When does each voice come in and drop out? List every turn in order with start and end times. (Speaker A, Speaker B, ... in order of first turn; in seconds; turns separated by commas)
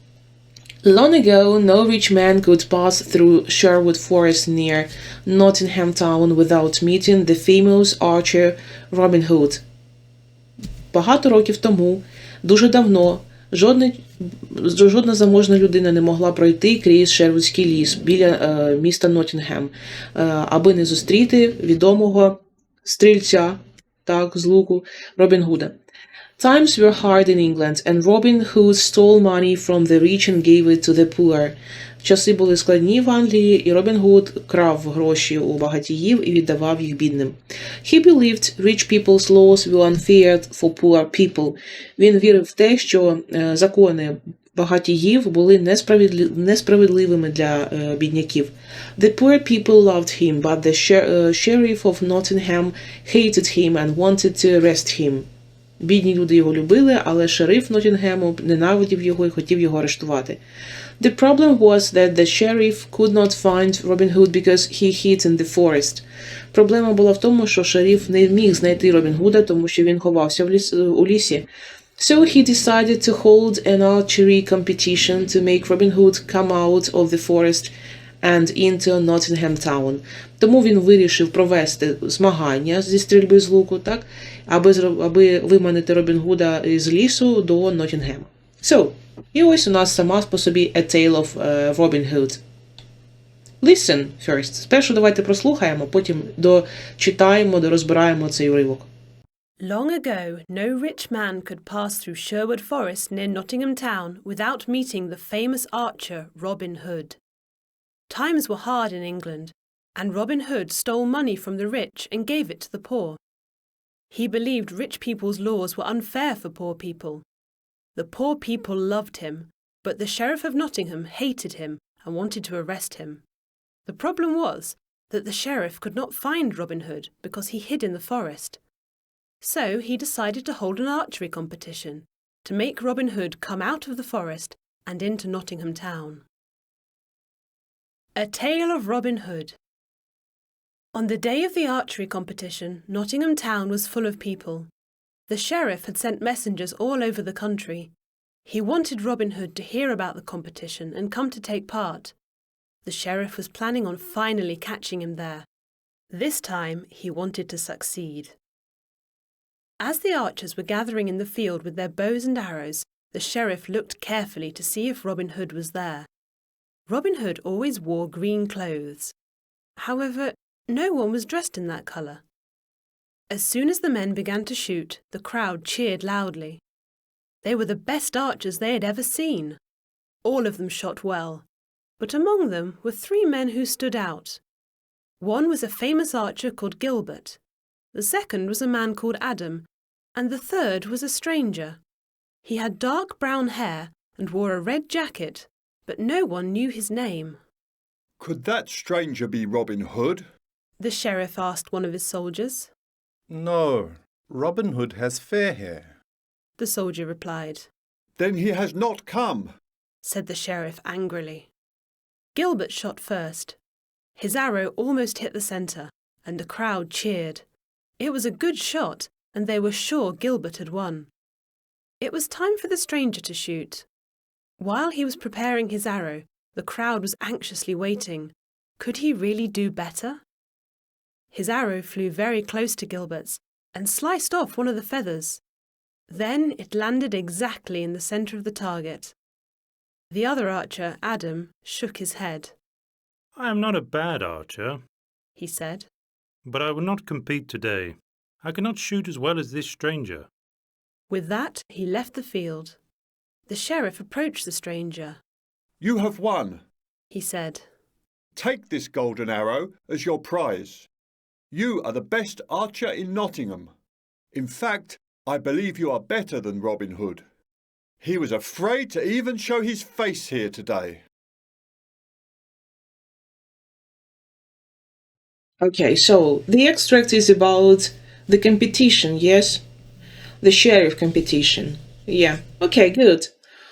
Speaker A: 0.8-9.6, Speaker A: 10.9-25.8, Speaker A: 26.4-55.3, Speaker A: 55.8-60.4, Speaker A: 61.0-71.5, Speaker A: 72.0-92.4, Speaker A: 93.6-98.9, Speaker B: 99.6-107.2, Speaker B: 108.1-113.2, Speaker B: 114.1-117.2, Speaker B: 118.0-123.2, Speaker B: 123.9-128.6, Speaker B: 129.4-136.2, Speaker B: 138.2-139.6, Speaker B: 140.9-144.7, Speaker B: 145.3-147.9, Speaker B: 148.5-152.2, Speaker B: 152.8-155.5, Speaker B: 156.1-158.4, Speaker B: 159.8-166.1, Speaker B: 166.9-169.1, Speaker B: 169.8-172.2, Speaker B: 173.3-176.6, Speaker B: 177.4-179.6, Speaker B: 180.2-181.5, Speaker B: 182.0-184.4, Speaker B: 185.2-187.4, Speaker B: 187.9-191.8, Speaker B: 192.4-197.4, Speaker C: 198.2-200.2, Speaker B: 200.8-202.7, Speaker D: 203.4-205.8, Speaker B: 206.6-207.7, Speaker C: 208.2-209.5, Speaker B: 210.0-211.5, Speaker B: 212.3-213.6, Speaker B: 214.2-217.4, Speaker B: 218.0-221.1, Speaker B: 222.0-223.9, Speaker B: 224.6-230.2, Speaker B: 231.3-235.4, Speaker B: 236.1-239.1, Speaker B: 240.1-242.6, Speaker E: 243.3-244.8, Speaker B: 245.4-245.9, Speaker E: 246.5-250.3, Speaker B: 251.1-252.8, Speaker B: 253.5-255.2, Speaker C: 255.8-256.6, Speaker B: 257.1-257.7, Speaker C: 258.4-260.9, Speaker C: 261.5-263.7, Speaker C: 264.3-267.2, Speaker C: 268.0-271.0, Speaker A: 275.6-279.6, Speaker A: 280.4-283.3